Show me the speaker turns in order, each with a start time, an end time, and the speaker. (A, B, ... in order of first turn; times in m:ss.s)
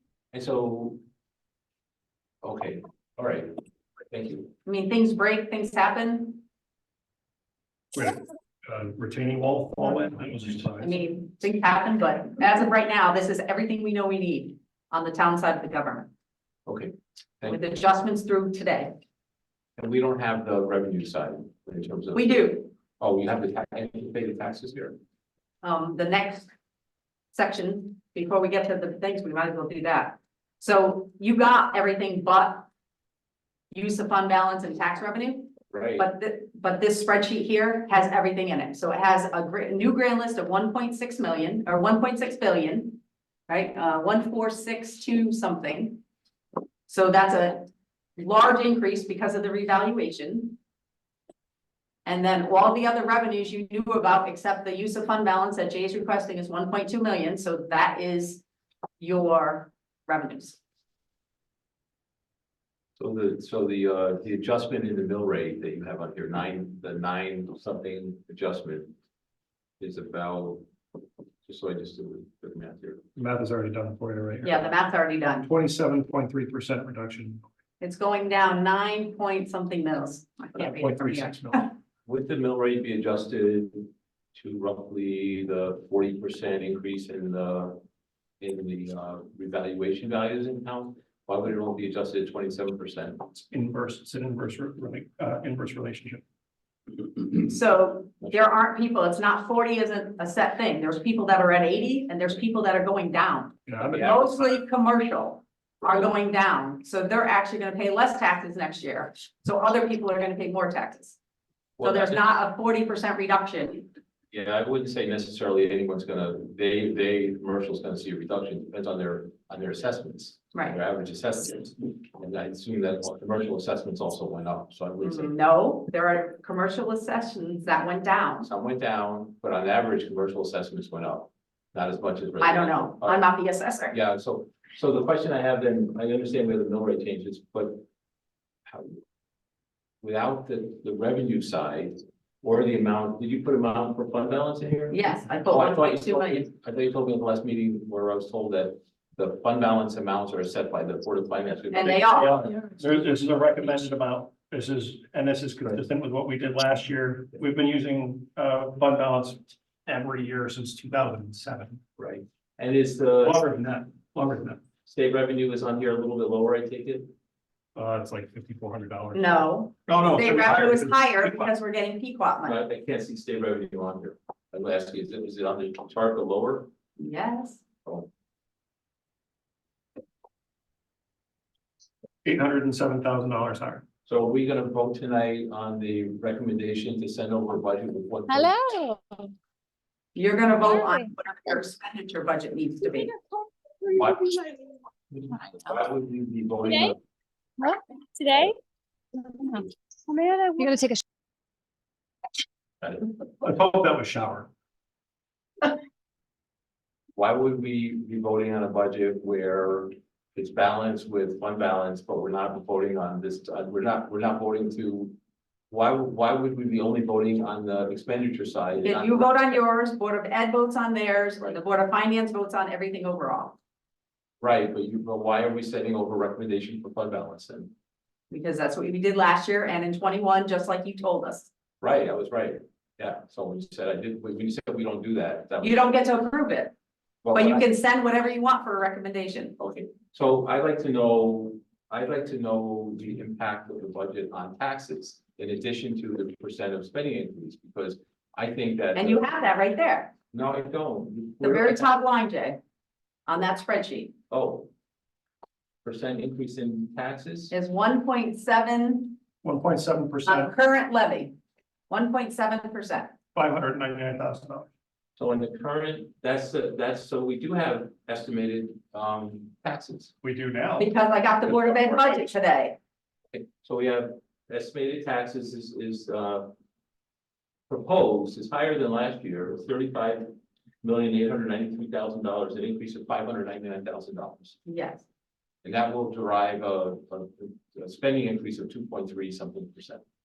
0:00.3-0:01.0 A
0:02.4-0:03.6 A
0:04.1-0:04.5 A
0:04.7-0:06.4 B
0:07.9-0:11.0 C
0:10.8-0:16.1 B
0:16.7-0:17.6 A
0:17.5-0:19.0 B
0:19.8-0:25.0 A
0:22.1-0:22.7 B
0:25.6-0:26.5 B
0:27.3-0:32.7 B
0:33.7-0:46.0 B
0:35.7-0:36.1 A
0:46.9-0:50.6 B
0:52.1-0:58.4 B
0:59.0-1:00.6 B
1:03.0-1:08.9 A
1:09.8-1:10.7 A
1:11.4-1:13.0 A
1:13.2-1:14.7 C
1:14.4-1:15.5 B
1:15.4-1:17.5 C
1:17.8-1:21.7 B
1:20.6-1:21.6 C
1:22.1-1:27.8 A
1:28.4-1:33.3 A
1:33.4-1:36.2 C
1:37.4-1:51.2 B
1:43.7-1:44.4 C
1:43.9-1:44.2 A
1:51.8-1:52.3 A
1:51.8-1:53.9 B
1:54.3-2:05.3 A
2:05.0-2:08.5 B
2:08.4-2:13.2 A
2:12.4-2:14.0 B
2:13.9-2:17.8 A
2:18.7-2:19.0 A
2:20.0-2:32.5 A
2:24.9-2:26.5 B
2:31.7-2:32.3 B
2:32.1-2:41.8 C
2:42.0-2:43.4 A
2:43.2-2:44.6 C
2:44.8-2:47.1 A
2:47.8-2:51.4 C
2:49.1-2:52.6 B
2:52.4-2:56.7 A
2:57.0-2:57.6 B
3:02.2-3:03.8 C
3:04.1-3:08.6 A
3:08.3-3:09.2 D
3:10.2-3:13.1 B
3:10.6-3:11.1 D
3:13.8-3:14.6 D
3:13.9-3:14.4 A
3:15.1-3:17.0 A
3:16.6-3:16.9 D
3:17.6-3:18.5 D
3:19.2-3:21.0 D
3:23.4-3:24.5 C
3:27.2-3:35.2 A
3:35.7-3:39.5 A
3:38.8-3:43.6 B
3:44.4-3:47.7 A
3:48.3-3:51.5 B
3:51.8-3:55.9 A
3:55.6-3:56.7 B
3:57.2-3:57.7 A
3:57.3-3:59.6 B
3:59.6-4:09.3 A
4:09.0-4:10.1 B
4:10.3-4:11.9 A
4:11.4-4:12.6 B
4:13.3-4:14.1 B
4:14.3-4:14.7 A
4:15.8-4:17.5 A
4:17.5-4:19.2 B
4:19.4-4:20.5 C
4:20.3-4:21.4 B
4:21.9-4:23.2 B
4:23.4-4:24.7 C
4:25.2-4:30.1 A
4:30.2-4:30.9 C
4:30.8-4:32.8 B
4:33.3-4:36.5 A
4:37.7-4:44.6 A
4:44.7-4:45.0 B
4:45.6-4:50.0 A